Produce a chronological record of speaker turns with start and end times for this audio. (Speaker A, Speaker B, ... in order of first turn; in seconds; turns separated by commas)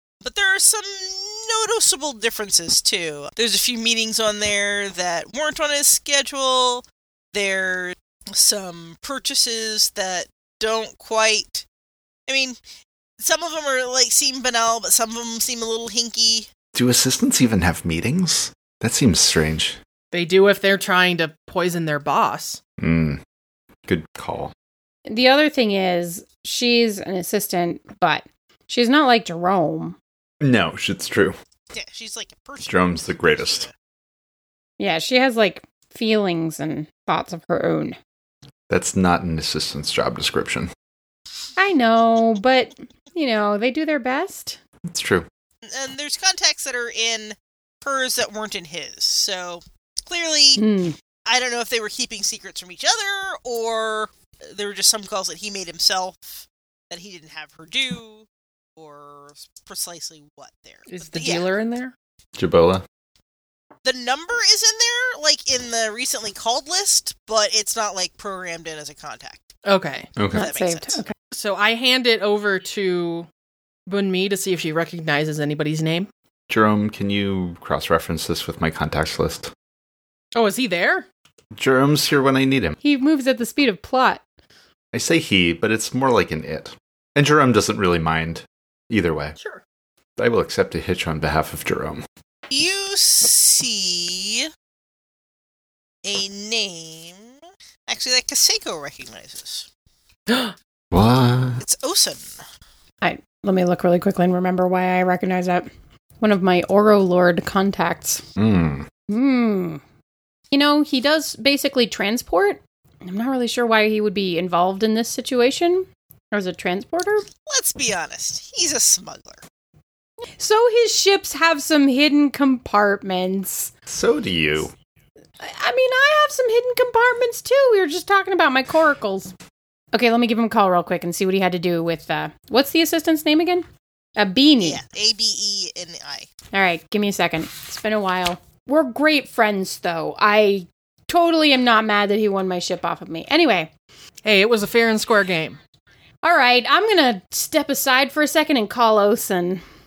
Speaker A: 0.2-11.6, Speaker A: 12.3-12.6, Speaker A: 13.2-16.5, Speaker B: 16.7-19.8, Speaker C: 20.1-22.6, Speaker B: 22.8-23.2, Speaker B: 23.9-24.5, Speaker D: 25.1-30.0, Speaker B: 30.4-31.4, Speaker A: 31.7-33.7, Speaker B: 32.6-33.7, Speaker D: 34.8-38.0, Speaker B: 38.7-40.7, Speaker D: 41.6-44.6, Speaker B: 44.9-45.3, Speaker A: 45.6-50.6, Speaker D: 50.6-51.0, Speaker A: 51.2-61.5, Speaker C: 60.9-61.9, Speaker B: 62.4-62.8, Speaker A: 63.8-69.5, Speaker C: 69.6-70.1, Speaker B: 70.2-70.5, Speaker A: 70.3-71.0, Speaker D: 70.3-71.1, Speaker C: 71.3-73.3, Speaker C: 73.9-76.1, Speaker B: 76.5-79.5, Speaker C: 80.3-81.1, Speaker B: 81.5-82.8, Speaker D: 82.8-84.2, Speaker B: 84.9-89.3, Speaker C: 89.3-89.6, Speaker B: 90.2-92.0, Speaker A: 92.5-94.5, Speaker A: 96.0-97.3, Speaker A: 97.9-99.7, Speaker C: 100.3-100.5, Speaker B: 100.9-101.6, Speaker A: 101.6-102.4, Speaker D: 103.0-105.7, Speaker D: 106.2-108.2, Speaker B: 108.4-108.9, Speaker D: 109.1-109.8, Speaker D: 110.5-117.3, Speaker A: 117.4-119.4, Speaker D: 120.4-123.7, Speaker B: 123.9-124.7, Speaker D: 125.4-129.3, Speaker D: 129.9-134.8, Speaker A: 134.6-136.3, Speaker D: 136.5-143.7, Speaker C: 144.2-145.6, Speaker D: 146.2-149.6